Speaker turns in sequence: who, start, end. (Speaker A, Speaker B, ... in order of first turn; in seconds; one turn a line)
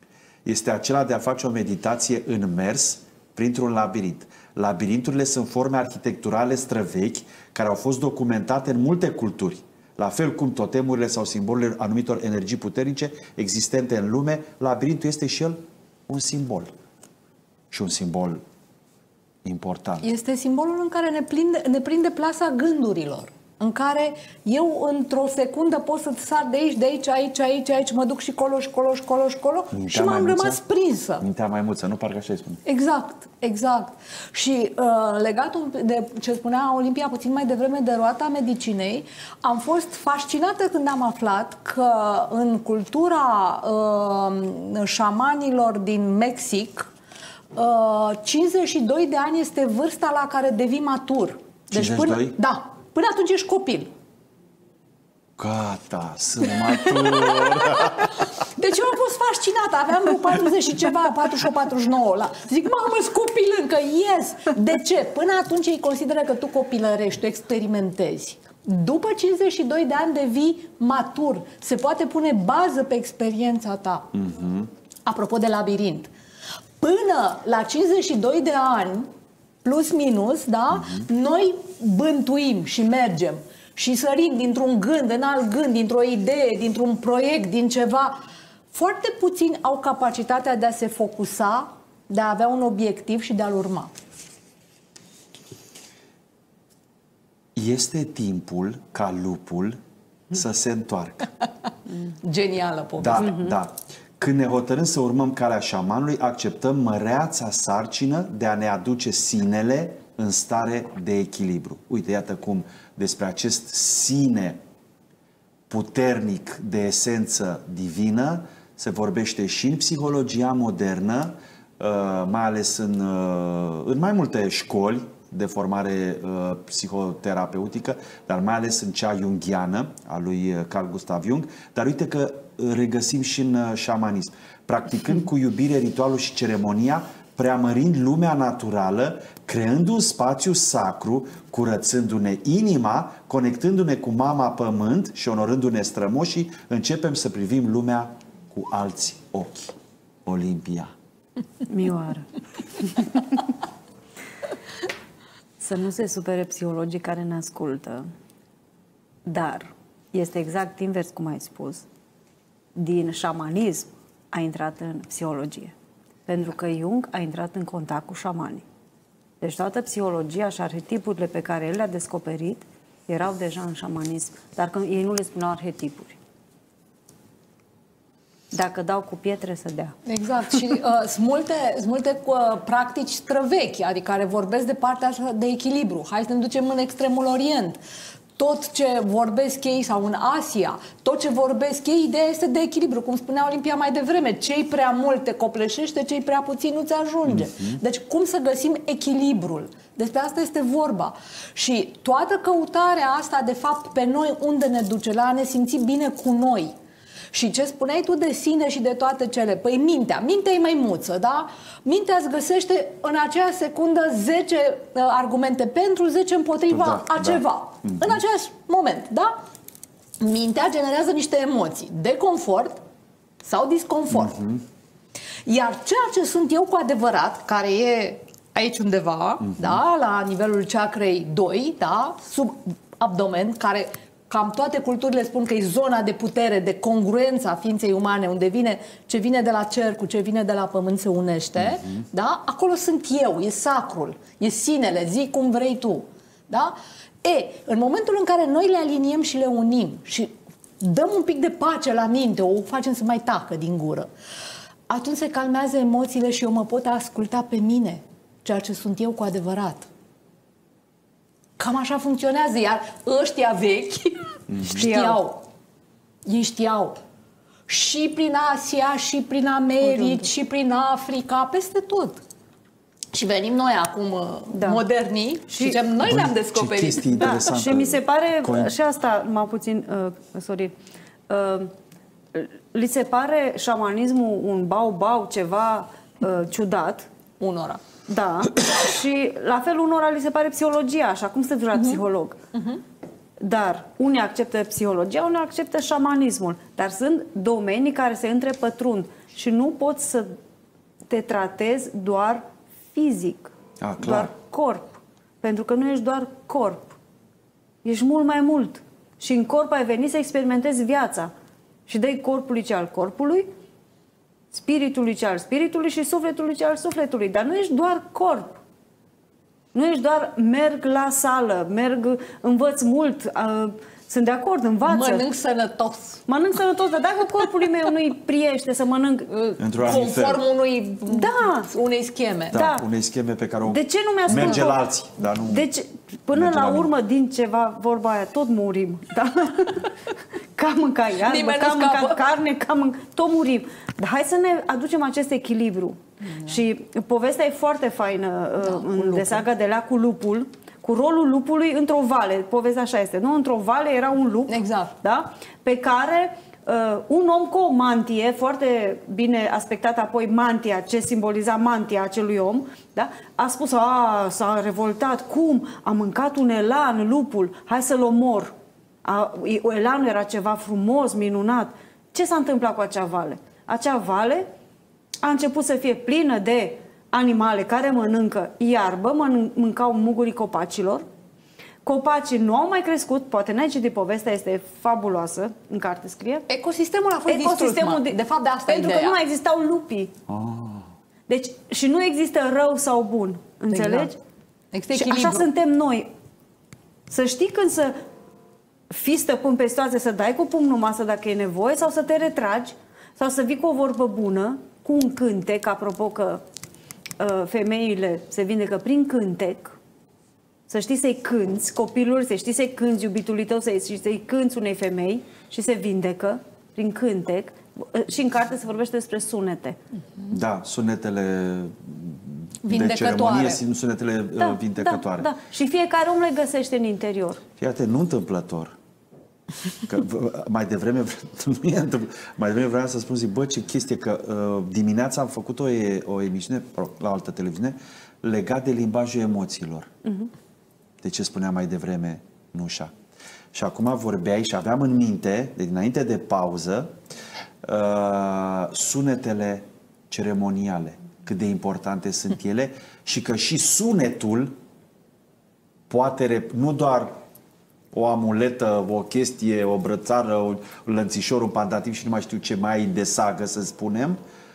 Speaker A: 0.4-16.7
Speaker A: 17.7-18.4
Speaker A: 19.4-20.1
Speaker B: 20.0-31.2
Speaker A: 29.7-30.6
Speaker A: 31.2-32.6
Speaker B: 32.6-46.9
Speaker B: 47.5-53.9
Speaker A: 51.7-52.3
Speaker A: 55.4-58.1
Speaker B: 56.8-74.1
Speaker A: 74.2-74.7
Speaker B: 75.0-76.1
Speaker B: 76.8-79.1
Speaker B: 79.6-88.2
Speaker B: 88.7-93.9
Speaker A: 97.5-99.8
Speaker A: 100.3-101.3
Speaker B: 102.2-103.4
Speaker A: 103.0-114.6
Speaker A: 115.7-150.9
Speaker C: 151.7-153.4
Speaker C: 155.6-158.1
Speaker C: 159.2-161.8
Speaker C: 162.7-165.7
Speaker C: 166.3-168.6
Speaker C: 169.4-176.2
Speaker C: 178.5-179.9
Speaker B: 180.1-187.8
Speaker B: 188.3-206.7
Speaker B: 207.3-219.3
Speaker A: 216.7-218.1
Speaker B: 220.2-222.8
Speaker B: 223.4-224.5
Speaker A: 224.2-224.6
Speaker B: 225.4-254.1
Speaker A: 229.5-229.8
Speaker B: 254.9-259.9
Speaker B: 261.6-265.4
Speaker A: 264.5-264.8
Speaker C: 264.7-265.2
Speaker B: 266.2-267.0
Speaker B: 267.7-272.2
Speaker C: 269.8-270.2
Speaker B: 273.1-277.2
Speaker C: 274.5-274.8
Speaker C: 275.5-275.8
Speaker A: 276.0-278.7
Speaker C: 277.2-280.7
Speaker C: 281.3-281.7
Speaker C: 282.3-287.1
Speaker B: 287.4-287.8
Speaker C: 288.1-292.4
Speaker C: 293.4-300.4
Speaker C: 301.1-306.9
Speaker A: 303.8-304.3
Speaker C: 307.8-311.3
Speaker C: 311.9-313.5
Speaker C: 314.5-318.6
Speaker C: 319.7-325.2
Speaker B: 324.9-326.2
Speaker C: 326.3-329.3
Speaker B: 329.3-332.6
Speaker A: 329.6-330.4
Speaker C: 331.1-331.7
Speaker A: 332.5-335.7
Speaker C: 332.5-332.9
Speaker C: 333.7-334.8
Speaker C: 335.5-339.9
Speaker A: 336.3-336.9
Speaker C: 340.6-374.4
Speaker B: 341.2-342.2
Speaker B: 346.2-346.6
Speaker B: 348.6-349.4
Speaker B: 354.5-354.9
Speaker C: 375.2-381.0
Speaker C: 381.8-386.5
Speaker B: 386.5-389.2
Speaker C: 387.3-390.1
Speaker A: 390.3-390.9
Speaker C: 391.3-394.1
Speaker B: 393.7-394.1
Speaker B: 394.7-395.5
Speaker C: 394.9-396.1
Speaker C: 397.1-397.9
Speaker C: 398.9-406.4
Speaker C: 407.2-409.7
Speaker C: 410.7-419.8
Speaker A: 420.3-425.3
Speaker B: 422.6-423.6
Speaker C: 424.4-427.4
Speaker A: 427.6-428.7
Speaker A: 429.8-439.9
Speaker A: 441.0-442.9
Speaker A: 443.5-446.9
Speaker A: 447.6-454.5
Speaker A: 455.9-457.1
Speaker A: 457.9-464.2